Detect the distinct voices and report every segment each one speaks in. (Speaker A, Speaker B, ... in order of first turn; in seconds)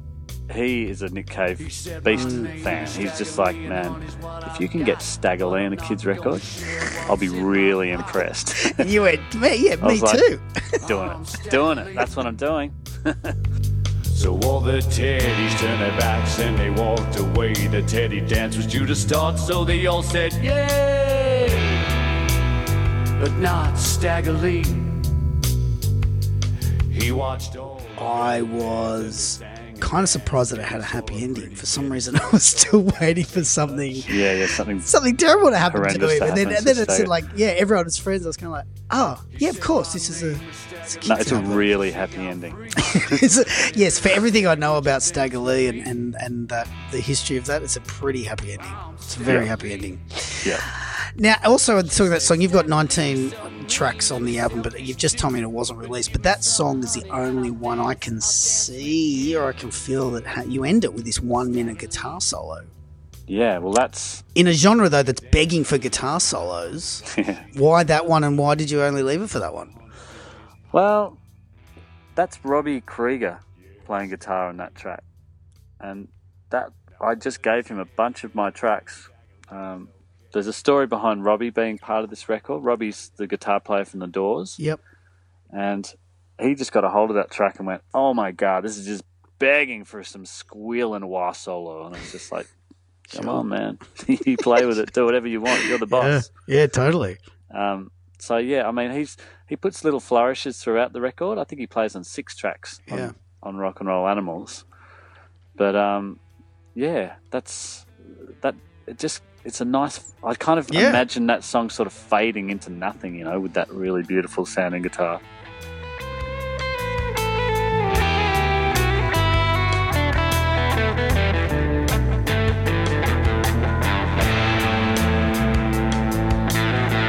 Speaker A: 0.5-8.9, 9.8-10.2, 10.8-13.4, 34.1-34.9, 35.7-37.2, 41.0-43.2, 63.3-64.2, 67.1-67.5, 70.7-71.2, 72.2-75.0, 75.8-84.6, 85.5-92.5, 93.1-96.3, 97.5-104.7, 105.6-106.2, 106.8-115.2
Speaker B: 1.6-8.2, 10.8-12.3, 14.1-21.9, 23.2-25.1, 26.9-34.1, 39.3-45.0, 48.7-49.5, 52.0-55.4, 56.1-57.0
Speaker C: 2.1-2.5, 8.6-10.8, 28.0-41.7, 42.8-62.7, 64.3-69.8, 93.1-93.5, 95.9-97.2, 102.9-103.1, 110.7-111.0